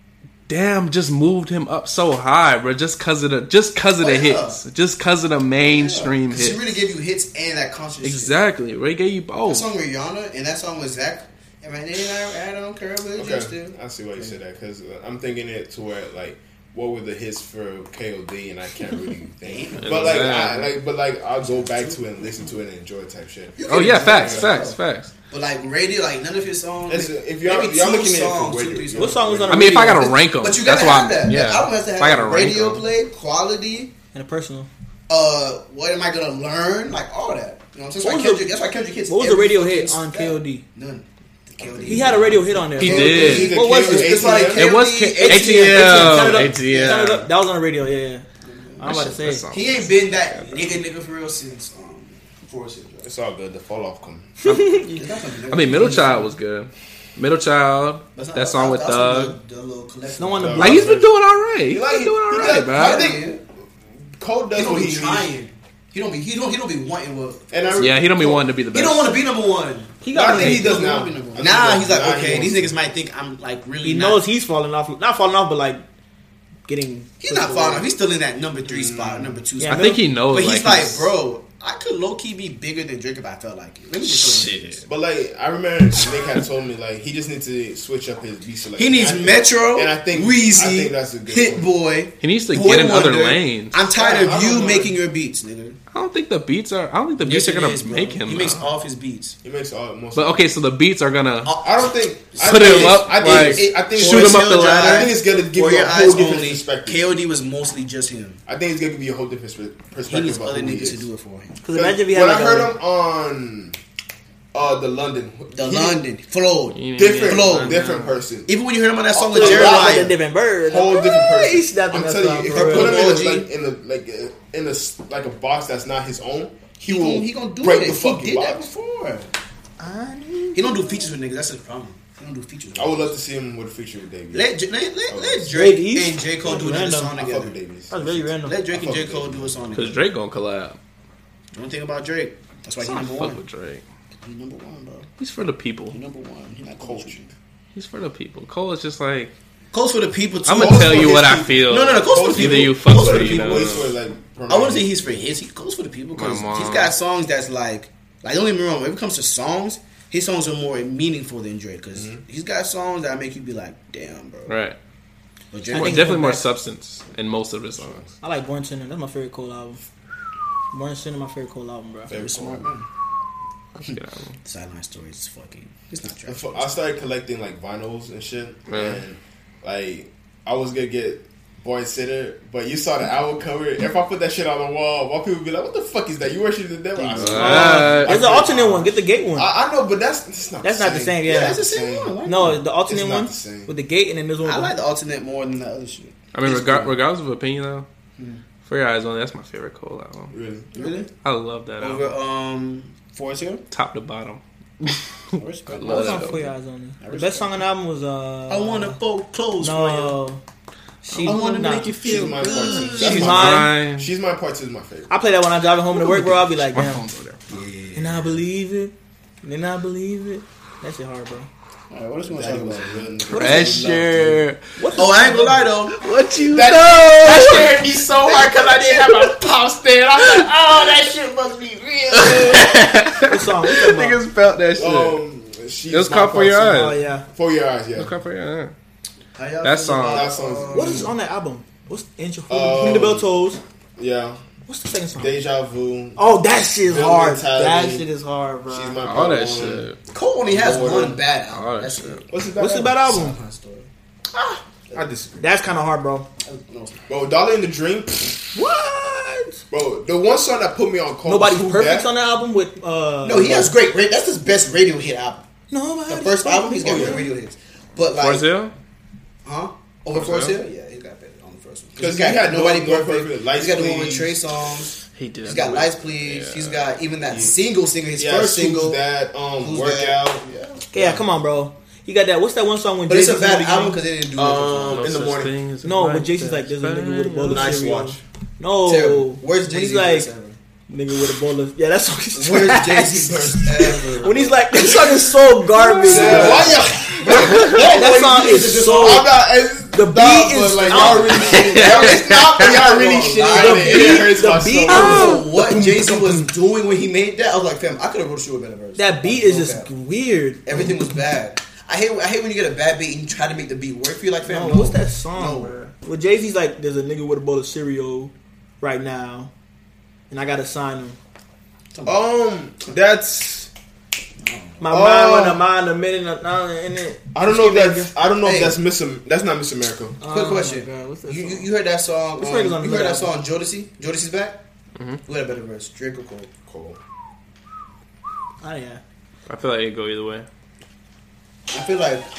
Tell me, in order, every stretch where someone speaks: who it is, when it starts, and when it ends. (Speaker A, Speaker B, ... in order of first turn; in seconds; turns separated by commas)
Speaker A: 0.5-6.7, Speaker B: 4.0-4.6, Speaker B: 5.6-8.4, Speaker A: 8.0-9.7, Speaker B: 9.4-13.7, Speaker C: 13.1-24.7, Speaker B: 19.4-20.5, Speaker A: 19.8-20.7, Speaker B: 21.4-22.0, Speaker B: 23.6-24.8, Speaker A: 23.6-25.1, Speaker B: 25.3-29.3, Speaker C: 26.9-29.8, Speaker D: 28.9-30.2, Speaker A: 29.5-32.8, Speaker B: 30.3-33.9, Speaker D: 34.1-34.7, Speaker B: 35.1-47.2, Speaker D: 38.0-38.5, Speaker D: 39.1-40.6, Speaker C: 41.6-44.7, Speaker D: 41.9-44.4, Speaker A: 42.8-43.5, Speaker A: 44.5-47.2, Speaker D: 45.2-48.2, Speaker B: 48.5-53.1, Speaker D: 48.8-49.5, Speaker A: 48.8-50.6, Speaker C: 53.0-54.3, Speaker D: 54.4-55.1, Speaker B: 54.9-56.3, Speaker A: 55.5-59.4, Speaker B: 58.1-60.8, Speaker D: 60.2-61.0, Speaker C: 60.3-61.1, Speaker A: 60.6-63.1, Speaker C: 61.7-63.4, Speaker B: 62.4-63.4, Speaker C: 64.2-65.3, Speaker B: 64.5-68.0, Speaker C: 67.5-68.5, Speaker A: 67.8-69.2, Speaker B: 68.7-74.2, Speaker D: 70.0-71.0, Speaker C: 70.1-72.8, Speaker D: 73.8-75.8, Speaker D: 76.7-77.9, Speaker B: 77.2-84.8, Speaker C: 78.7-79.4, Speaker D: 79.6-80.0, Speaker A: 79.6-81.1, Speaker A: 84.0-84.8, Speaker C: 84.8-91.7, Speaker B: 88.8-95.8, Speaker A: 92.2-93.8, Speaker C: 93.9-95.0, Speaker A: 95.9-98.7, Speaker B: 97.2-99.4, Speaker C: 99.4-100.4, Speaker A: 100.2-101.5, Speaker B: 101.4-108.4, Speaker C: 101.6-107.0, Speaker A: 102.4-105.1, Speaker C: 108.5-111.1, Speaker B: 110.0-111.6, Speaker D: 111.6-112.8, Speaker C: 111.7-113.8, Speaker C: 114.5-116.0, Speaker B: 115.5-117.8, Speaker A: 116.7-118.2, Speaker C: 117.0-118.5, Speaker B: 118.5-120.1, Speaker C: 119.1-128.7, Speaker D: 119.3-123.4, Speaker B: 122.4-123.5, Speaker B: 126.8-129.3, Speaker D: 129.8-131.1, Speaker B: 130.5-133.2, Speaker C: 132.7-134.5, Speaker B: 134.3-137.6, Speaker C: 135.1-135.7, Speaker D: 135.5-137.1, Speaker C: 137.1-139.7, Speaker D: 137.9-138.6, Speaker B: 138.4-140.0, Speaker A: 139.7-140.8, Speaker B: 141.5-143.4, Speaker A: 142.8-143.8, Speaker B: 144.2-145.1, Speaker A: 145.2-146.0, Speaker B: 145.9-147.2, Speaker C: 146.8-147.3, Speaker A: 147.7-149.3, Speaker B: 149.7-153.9, Speaker A: 150.4-153.9, Speaker C: 150.5-155.3, Speaker B: 154.5-164.6, Speaker A: 156.2-156.9, Speaker C: 161.9-162.2, Speaker A: 164.5-164.8, Speaker B: 165.5-166.2, Speaker D: 165.7-166.4, Speaker A: 165.7-168.1, Speaker D: 168.2-169.8, Speaker D: 170.7-172.1, Speaker C: 172.1-172.7, Speaker B: 172.1-172.8, Speaker A: 173.8-174.3, Speaker B: 173.8-176.7, Speaker C: 176.3-193.7, Speaker A: 178.7-179.0, Speaker B: 186.9-187.8, Speaker A: 187.1-188.1, Speaker D: 187.2-189.5, Speaker D: 190.6-191.6, Speaker B: 191.2-192.6, Speaker D: 192.2-194.7, Speaker B: 194.4-196.9, Speaker A: 196.3-197.9, Speaker B: 198.2-198.4, Speaker A: 198.6-200.3, Speaker C: 200.3-200.8, Speaker B: 200.7-201.1, Speaker A: 201.1-202.1, Speaker B: 201.8-203.6, Speaker A: 203.7-206.4, Speaker B: 205.3-206.5, Speaker D: 205.8-209.0, Speaker B: 207.0-207.6, Speaker B: 208.5-210.2, Speaker D: 209.6-210.4, Speaker D: 211.0-213.8, Speaker B: 211.2-213.5, Speaker A: 211.2-214.1, Speaker C: 211.9-215.2, Speaker D: 215.1-217.0, Speaker A: 215.9-217.4, Speaker B: 217.5-218.4, Speaker D: 217.9-221.5, Speaker B: 221.9-223.2, Speaker C: 222.3-224.4, Speaker D: 223.3-223.8, Speaker A: 223.3-224.8, Speaker D: 224.8-225.6, Speaker B: 224.9-225.9, Speaker A: 225.9-229.3, Speaker C: 226.4-232.9, Speaker A: 230.2-230.5, Speaker A: 232.1-235.2, Speaker D: 233.3-234.2, Speaker C: 234.8-238.1, Speaker A: 235.9-236.9, Speaker D: 236.6-237.2, Speaker A: 237.9-238.7, Speaker B: 239.3-241.1, Speaker A: 239.6-240.3, Speaker C: 240.0-241.1, Speaker D: 240.7-243.6, Speaker C: 242.5-243.3, Speaker C: 244.0-244.4, Speaker D: 244.7-245.3, Speaker C: 245.1-246.2, Speaker D: 246.2-249.0, Speaker C: 246.8-248.1, Speaker C: 248.7-249.9, Speaker A: 249.1-250.0, Speaker B: 250.1-252.5, Speaker C: 250.5-251.2, Speaker A: 251.5-252.2, Speaker C: 252.3-253.1, Speaker D: 252.6-253.4, Speaker B: 253.0-253.9, Speaker D: 254.3-254.6, Speaker C: 254.9-255.5, Speaker D: 255.4-256.3, Speaker B: 256.4-257.2, Speaker C: 257.1-258.6, Speaker D: 258.5-259.6, Speaker C: 259.7-262.1, Speaker D: 261.2-263.7, Speaker B: 263.2-265.5, Speaker D: 265.7-267.3, Speaker B: 266.1-268.5, Speaker C: 266.8-267.3, Speaker A: 268.0-268.7, Speaker B: 269.4-279.0, Speaker C: 270.1-270.6, Speaker C: 272.0-274.4, Speaker A: 275.1-276.9, Speaker C: 277.3-277.6, Speaker C: 278.1-280.4, Speaker B: 279.6-280.9, Speaker D: 280.9-284.0, Speaker B: 283.1-285.1, Speaker C: 284.3-285.5, Speaker A: 284.9-287.7, Speaker D: 285.8-290.3, Speaker C: 287.5-288.2, Speaker B: 287.5-287.8, Speaker B: 288.8-290.6, Speaker D: 290.9-299.3, Speaker B: 292.3-295.3, Speaker C: 295.8-297.8, Speaker B: 295.9-299.3, Speaker C: 298.9-305.3, Speaker D: 299.9-302.1, Speaker B: 300.8-309.9, Speaker A: 301.5-302.6, Speaker D: 303.4-305.5, Speaker A: 304.9-306.5, Speaker D: 309.0-310.6, Speaker B: 310.6-315.8, Speaker D: 314.4-319.5, Speaker D: 320.3-321.2, Speaker B: 321.9-322.2, Speaker C: 322.0-323.7, Speaker B: 324.4-324.8, Speaker D: 324.8-328.1, Speaker C: 324.9-325.6, Speaker C: 327.3-330.2, Speaker B: 328.4-328.8, Speaker D: 330.2-331.7, Speaker B: 330.2-334.6, Speaker D: 332.4-333.3, Speaker A: 334.9-335.2, Speaker B: 335.2-336.5, Speaker C: 336.7-337.0, Speaker D: 338.6-339.0, Speaker A: 339.5-340.5, Speaker B: 341.7-342.3